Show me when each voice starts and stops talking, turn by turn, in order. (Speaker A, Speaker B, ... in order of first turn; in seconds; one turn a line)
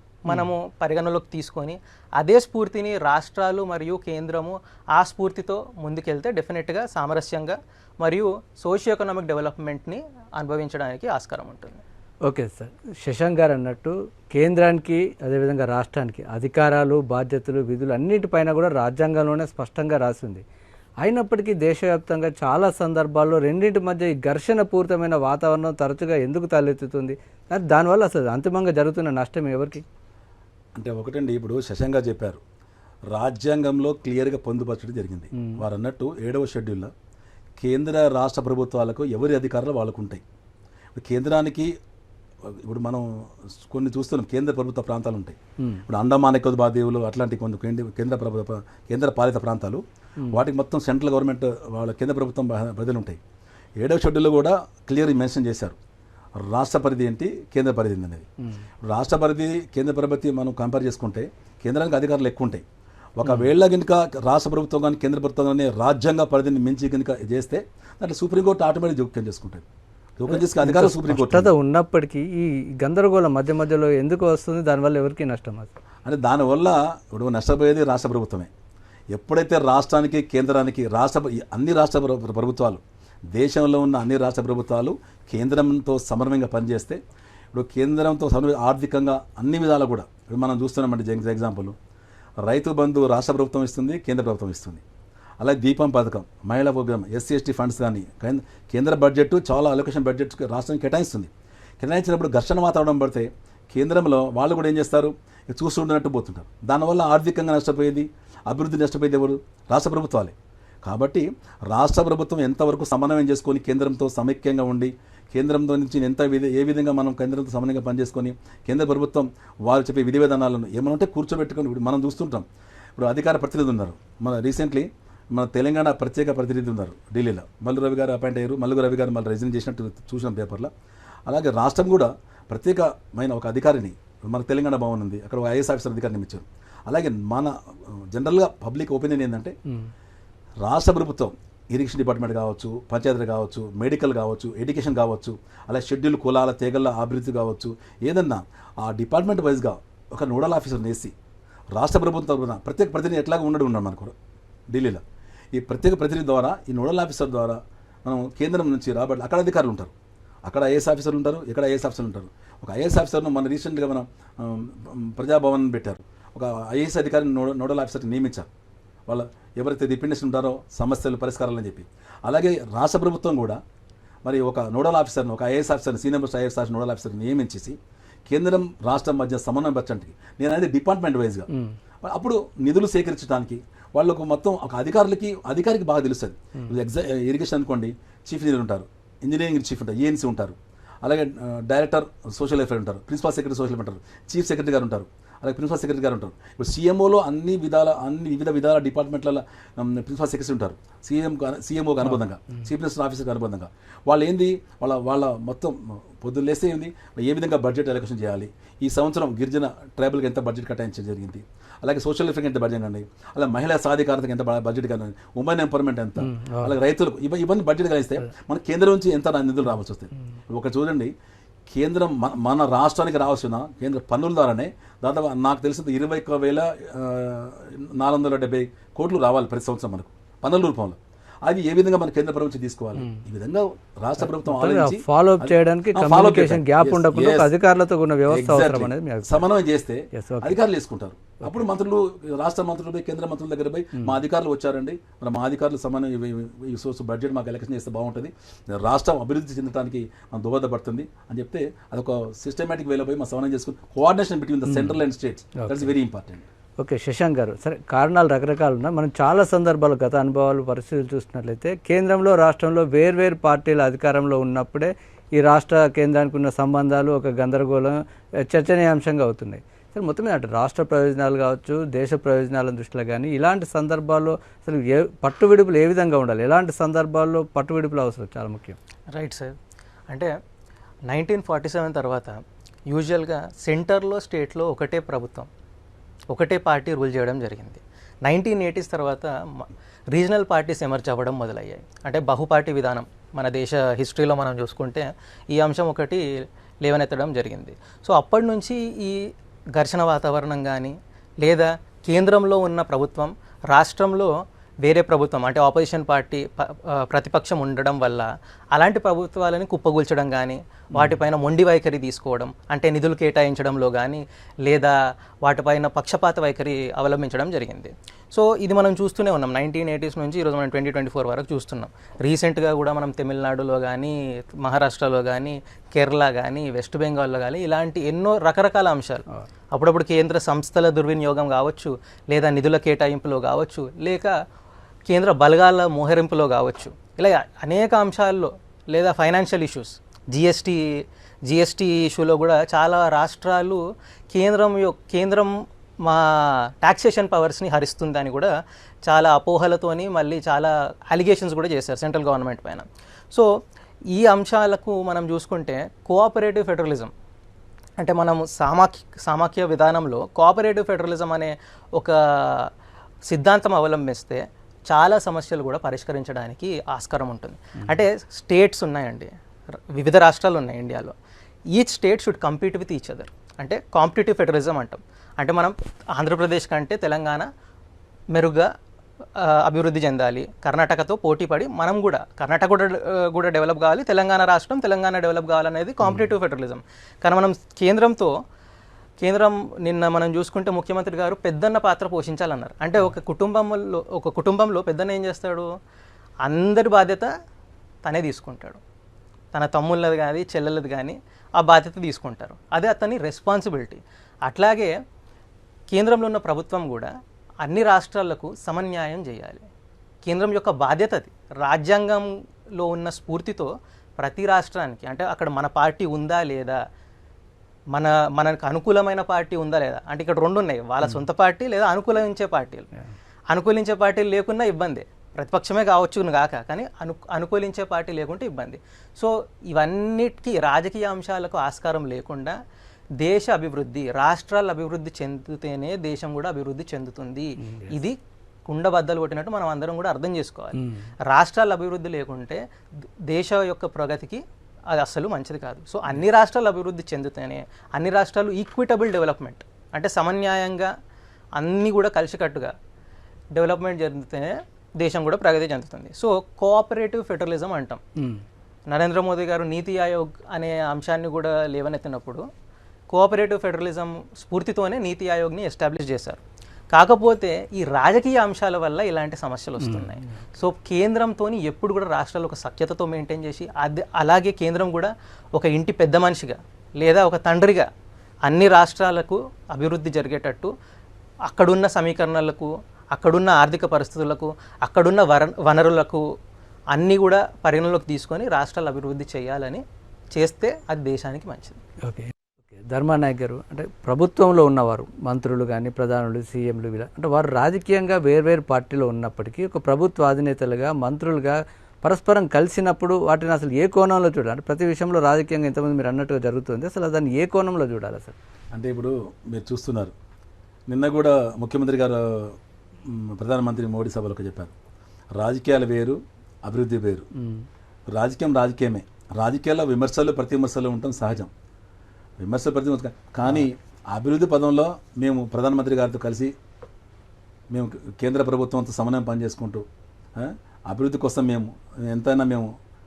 Speaker A: 0.2-11.8
Speaker B: 12.2-20.4
Speaker B: 21.0-29.8
Speaker C: 30.8-32.4
Speaker C: 33.1-36.9
Speaker B: 35.3-35.6
Speaker C: 37.6-40.2
Speaker C: 41.0-41.7
Speaker C: 42.5-53.2
Speaker C: 53.8-55.8
Speaker C: 56.4-58.3
Speaker C: 58.9-62.6
Speaker C: 63.2-69.7
Speaker B: 63.2-63.5
Speaker C: 70.2-71.5
Speaker B: 70.3-75.7
Speaker C: 76.0-78.5
Speaker C: 79.1-82.8
Speaker C: 83.3-87.0
Speaker C: 87.5-91.8
Speaker C: 92.4-94.8
Speaker C: 95.4-130.7
Speaker C: 131.3-139.5
Speaker C: 140.6-151.1
Speaker C: 151.7-154.1
Speaker C: 154.7-155.0
Speaker C: 155.6-159.9
Speaker C: 160.5-168.5
Speaker C: 169.1-173.6
Speaker C: 174.2-177.8
Speaker C: 178.3-181.5
Speaker C: 182.0-221.1
Speaker B: 216.2-216.8
Speaker C: 221.7-237.5
Speaker B: 233.0-233.2
Speaker B: 234.3-239.4
Speaker C: 238.3-256.4
Speaker B: 240.1-240.6
Speaker B: 254.7-255.0
Speaker B: 255.6-255.9
Speaker B: 256.8-278.8
Speaker A: 279.1-279.5
Speaker A: 281.1-282.4
Speaker A: 282.9-285.5
Speaker A: 286.3-296.2
Speaker A: 296.8-334.3
Speaker A: 335.1-340.9
Speaker A: 341.5-348.5
Speaker A: 349.1-353.5
Speaker A: 354.1-357.1
Speaker A: 358.0-362.7
Speaker A: 363.3-369.3
Speaker A: 369.9-371.1
Speaker A: 371.7-377.5
Speaker A: 378.3-378.7
Speaker A: 379.4-388.4
Speaker B: 386.0-386.3
Speaker A: 389.2-395.7
Speaker A: 396.4-397.3
Speaker A: 398.1-398.8
Speaker A: 399.5-404.9
Speaker A: 405.9-407.1
Speaker A: 407.6-409.7
Speaker A: 410.3-416.8
Speaker A: 417.9-422.9
Speaker A: 423.5-432.6
Speaker A: 433.2-438.2
Speaker B: 437.6-437.9
Speaker A: 438.7-442.6
Speaker B: 440.8-441.1
Speaker A: 443.3-450.9
Speaker A: 451.6-452.7
Speaker A: 453.5-458.0
Speaker B: 458.2-458.4
Speaker A: 458.9-462.4
Speaker A: 463.1-466.4
Speaker A: 466.9-477.9
Speaker B: 469.8-470.4
Speaker A: 478.5-480.7
Speaker A: 481.5-486.2
Speaker A: 486.9-489.8
Speaker A: 490.4-491.8
Speaker B: 492.0-508.4
Speaker C: 508.7-510.1
Speaker C: 510.9-514.7
Speaker C: 515.4-517.3
Speaker B: 517.4-517.7
Speaker C: 518.1-521.5
Speaker C: 522.4-526.5
Speaker C: 527.7-532.7